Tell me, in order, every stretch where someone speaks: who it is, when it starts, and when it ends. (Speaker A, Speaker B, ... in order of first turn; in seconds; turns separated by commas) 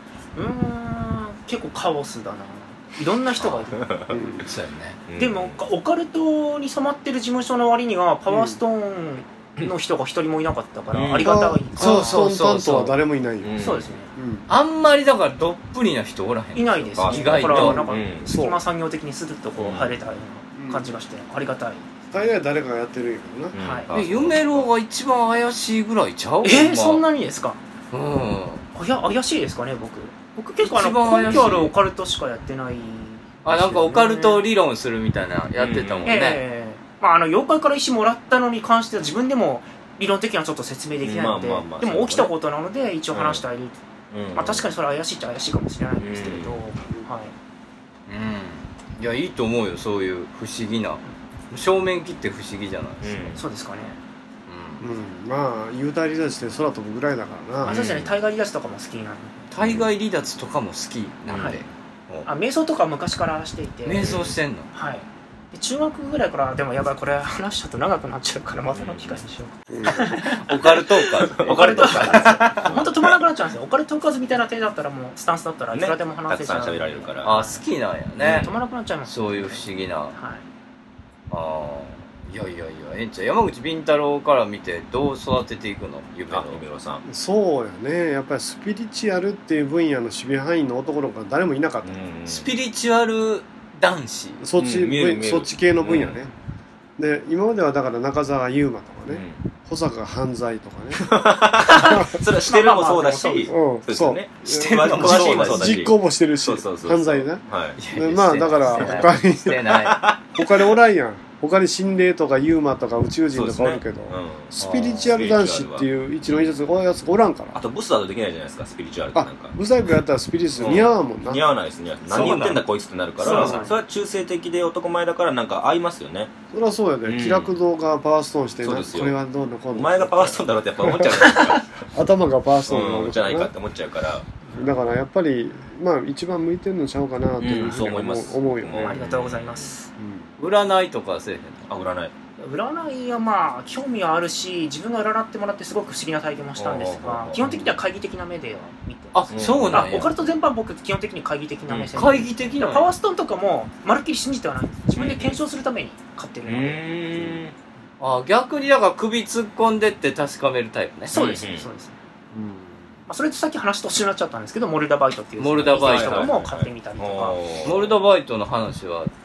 Speaker A: 0.3-3.9, Speaker B: 3.4-4.2, Speaker C: 4.1-4.5, Speaker D: 4.4-5.0, Speaker B: 5.1-5.6, Speaker A: 5.2-12.2, Speaker C: 8.3-8.6, Speaker B: 10.9-11.4, Speaker C: 11.2-13.6, Speaker D: 11.8-12.9, Speaker B: 13.4-14.0, Speaker A: 13.6-14.1, Speaker C: 14.1-14.5, Speaker D: 14.5-17.8, Speaker A: 16.5-22.1, Speaker B: 17.0-18.3, Speaker C: 17.5-18.6, Speaker B: 19.6-20.0, Speaker C: 20.5-20.9, Speaker C: 22.1-23.5, Speaker B: 23.5-24.7, Speaker A: 23.6-23.9, Speaker D: 23.9-27.0, Speaker A: 26.4-27.6, Speaker D: 27.9-28.6, Speaker A: 28.7-34.4, Speaker D: 30.6-31.7, Speaker B: 31.2-31.5, Speaker D: 33.4-36.4, Speaker B: 35.6-36.2, Speaker A: 36.0-43.8, Speaker B: 41.0-42.3, Speaker B: 43.1-43.4, Speaker B: 44.1-44.7, Speaker A: 44.3-47.3, Speaker B: 46.0-46.6, Speaker D: 48.1-53.3, Speaker B: 53.0-53.4, Speaker A: 53.4-54.0, Speaker D: 54.5-54.8, Speaker C: 54.8-57.8, Speaker B: 57.6-58.1, Speaker A: 57.6-59.5, Speaker D: 59.5-62.3, Speaker B: 61.3-61.6, Speaker A: 61.3-61.6, Speaker A: 62.2-64.1, Speaker D: 63.8-64.7, Speaker B: 64.0-64.3, Speaker A: 64.7-70.8, Speaker B: 68.7-69.2, Speaker C: 69.7-70.3, Speaker D: 70.2-72.7, Speaker B: 71.4-73.2, Speaker A: 71.4-77.6, Speaker B: 75.7-77.3, Speaker D: 77.2-80.1, Speaker A: 78.2-80.4, Speaker B: 78.2-78.5, Speaker D: 81.3-86.6, Speaker B: 86.3-87.0, Speaker C: 87.0-92.0, Speaker B: 91.8-92.5, Speaker D: 92.3-94.4, Speaker C: 94.4-96.3, Speaker B: 94.6-96.2, Speaker C: 97.0-101.0, Speaker B: 99.1-99.4, Speaker B: 101.0-107.8, Speaker A: 101.7-103.6, Speaker C: 101.8-102.1, Speaker C: 103.5-109.8, Speaker D: 104.4-105.8, Speaker D: 107.8-110.0, Speaker B: 109.8-110.2, Speaker C: 110.3-117.6, Speaker B: 113.3-114.5, Speaker D: 114.6-115.1, Speaker B: 115.1-116.6, Speaker B: 117.5-119.6, Speaker C: 119.1-121.4, Speaker B: 120.5-126.3, Speaker D: 122.1-122.6, Speaker C: 123.2-123.7, Speaker A: 123.2-123.7, Speaker C: 126.5-133.5, Speaker B: 127.0-127.5, Speaker B: 128.6-129.2, Speaker B: 129.7-131.8, Speaker B: 132.7-134.3, Speaker C: 134.5-139.0, Speaker B: 137.4-139.7, Speaker A: 138.8-139.9, Speaker C: 140.0-140.3, Speaker D: 140.4-141.7, Speaker B: 141.7-142.1, Speaker A: 142.4-149.2, Speaker B: 146.6-147.7, Speaker C: 147.4-147.8, Speaker D: 149.1-150.1, Speaker B: 149.3-150.0, Speaker A: 149.7-156.9, Speaker B: 151.7-152.1, Speaker D: 151.9-152.9, Speaker B: 154.9-155.4, Speaker B: 156.4-157.5, Speaker D: 158.0-161.1, Speaker B: 161.1-161.7, Speaker A: 161.1-162.0, Speaker C: 162.3-162.9, Speaker A: 163.1-167.4, Speaker D: 165.4-166.3, Speaker B: 165.8-167.9, Speaker D: 167.6-169.1